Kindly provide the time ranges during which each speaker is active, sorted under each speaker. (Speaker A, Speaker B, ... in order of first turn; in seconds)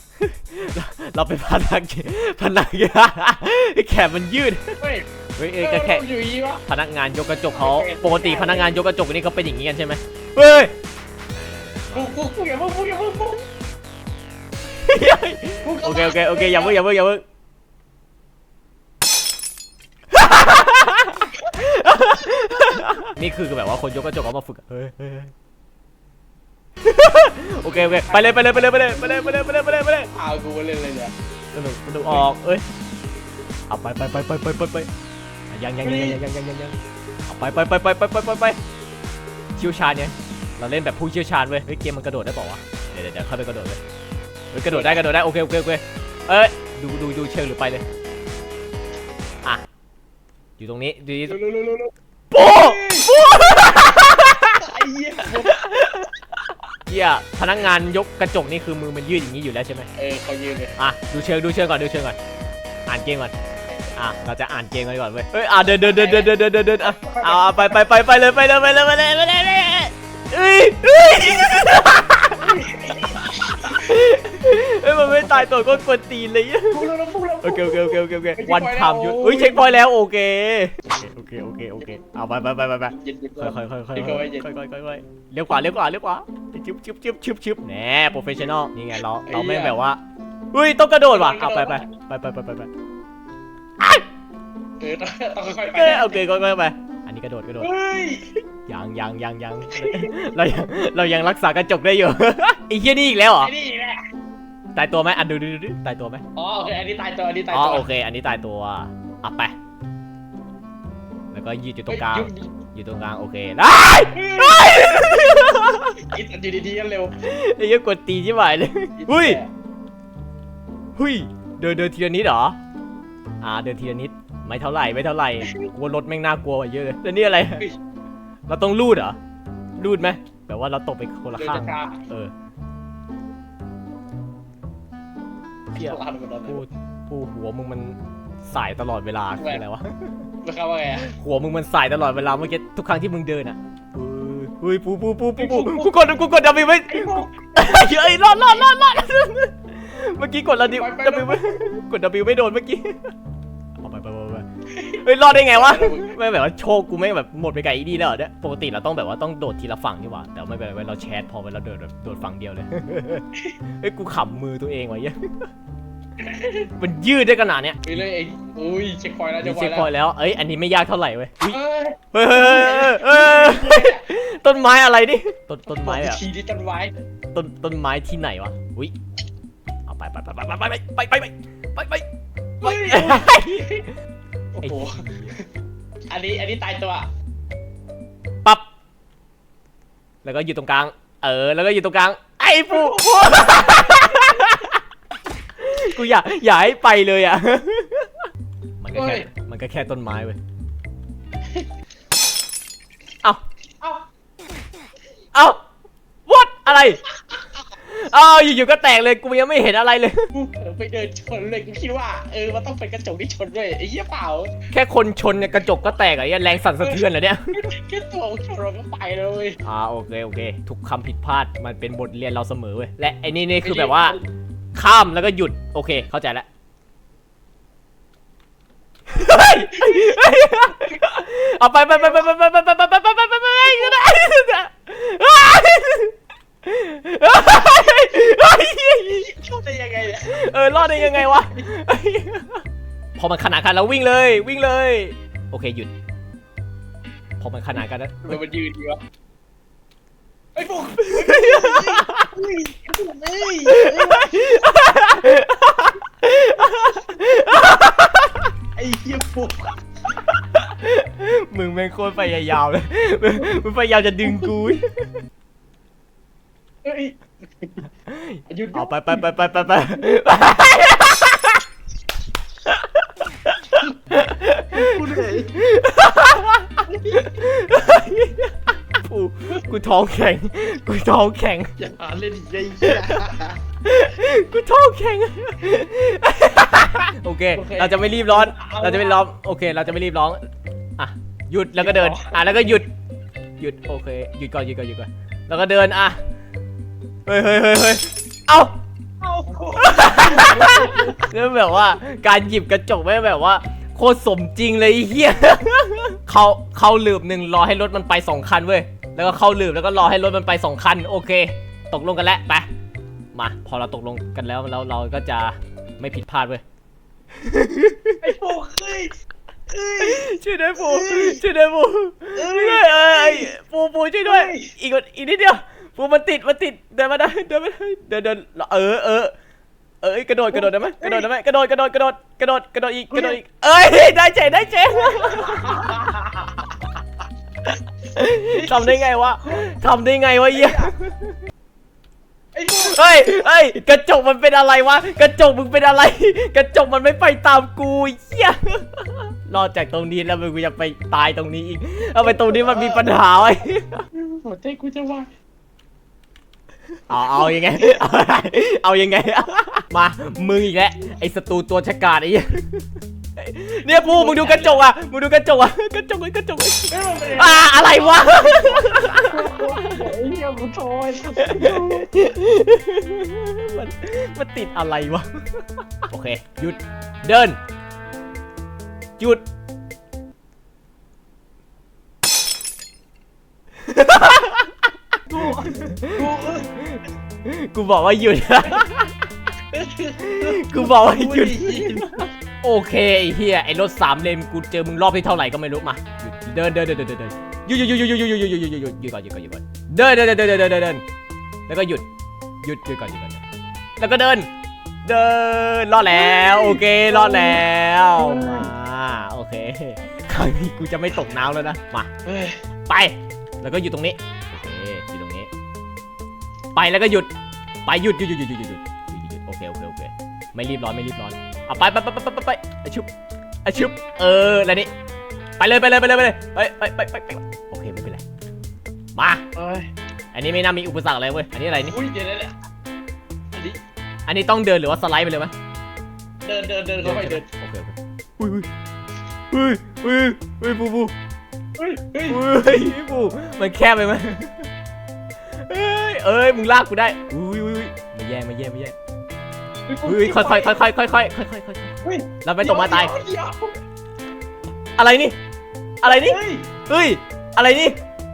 Speaker A: 0.2-4.8, 5.3-6.0, 6.6-10.7, 11.3-12.2, 14.8-17.2, 20.1-25.3, 26.8-30.1, 31.5-32.6, 33.7-34.9, 35.5-38.6, 39.6-43.8, 44.5-47.8, 50.6-51.4, 52.3-54.6, 55.4-56.1, 56.9-59.9, 60.8-62.2, 62.9-63.3, 63.9-72.5, 73.6-76.9, 77.4-90.0, 90.5-92.7, 95.7-97.7, 98.7-103.5, 104.7-106.2, 107.5-109.5, 111.3-116.0, 117.2-119.4, 121.0-122.6, 123.4-127.7, 128.5-129.2, 129.8-132.3, 135.7-140.3, 141.0-153.1, 153.8-163.2, 163.8-165.5, 166.8-168.0, 169.4-171.6, 172.1-176.2, 177.3-178.9, 179.9-182.1, 182.6-183.8, 184.6-185.4, 190.2-194.8, 195.6-198.3, 198.8-200.4, 205.3-205.6, 206.3-207.0, 207.8-210.3, 214.7-217.6, 219.6-224.2, 224.7-226.5, 229.1-239.4, 240.2-242.6, 243.2-245.9, 247.4-248.4, 251.0-252.3, 253.7-258.5, 260.2-265.2, 268.1-271.6, 272.6-281.7, 282.8-283.3, 283.8-290.4, 291.0-292.9, 293.6-296.2, 297.2-298.8, 299.8-312.7, 313.3-316.6, 317.4-318.2, 320.0-329.3, 330.0-336.1, 338.1-341.4, 342.7-354.0, 357.1-362.9, 363.4-370.0, 371.4-377.6, 383.8-384.8, 385.4-389.3, 390.2-401.0, 401.7-402.1, 402.6-403.4, 404.0-404.5, 405.0-412.1, 412.9-415.5, 416.7-417.3, 417.8-423.1, 423.6-424.9, 425.6-428.2, 429.1-429.4, 430.3-431.9, 434.3-435.5, 437.0-438.7, 439.5-441.1, 442.3-444.7, 445.6-448.9, 450.1-453.1, 455.0-455.3, 456.0-458.0
Speaker B: 4.8-5.1, 5.6-6.6, 7.5-8.7, 11.9-13.4, 15.6-16.8, 27.6-29.4, 30.1-31.1, 35.8-36.2, 44.7-45.0, 51.3-55.9, 60.0-60.7, 65.7-67.8, 72.4-74.1, 75.1-75.5, 76.7-79.7, 83.0-84.5, 89.2-89.8, 91.1-91.9, 94.8-96.2, 97.6-98.3, 99.7-100.2, 103.4-104.0, 106.3-107.9, 111.9-112.5, 114.1-117.1, 119.0-119.5, 125.4-125.7, 131.3-132.0, 135.7-136.6, 139.4-139.6, 140.4-141.1, 145.4-146.2, 146.9-147.5, 150.6-151.6, 154.7-156.2, 166.2-166.7, 167.8-169.9, 171.5-174.1, 175.7-176.9, 182.6-183.9, 184.5-185.4, 186.1-187.1, 192.7-194.5, 198.9-199.3, 203.8-204.1, 210.3-214.6, 216.8-219.6, 223.6-224.3, 229.7-230.2, 239.2-241.7, 248.3-249.0, 250.5-254.6, 258.8-259.8, 266.8-267.8, 268.5-269.2, 274.7-275.5, 276.9-277.3, 281.8-283.6, 287.5-289.2, 291.8-292.8, 299.2-301.3, 318.2-319.1, 319.7-320.2, 320.8-321.4, 322.3-323.5, 324.2-324.7, 330.5-331.3, 333.1-333.4, 334.9-336.7, 338.5-339.7, 340.5-340.9, 342.5-343.3, 352.2-353.1, 354.1-355.3, 357.4-357.8, 363.8-364.8, 366.9-372.1, 385.3-386.7, 389.7-392.3, 406.1-408.7, 412.2-412.6, 429.5-429.9, 431.8-432.5, 433.5-433.8, 436.4-437.5, 441.8-442.4, 449.9-450.8, 452.0-453.7, 456.0-456.7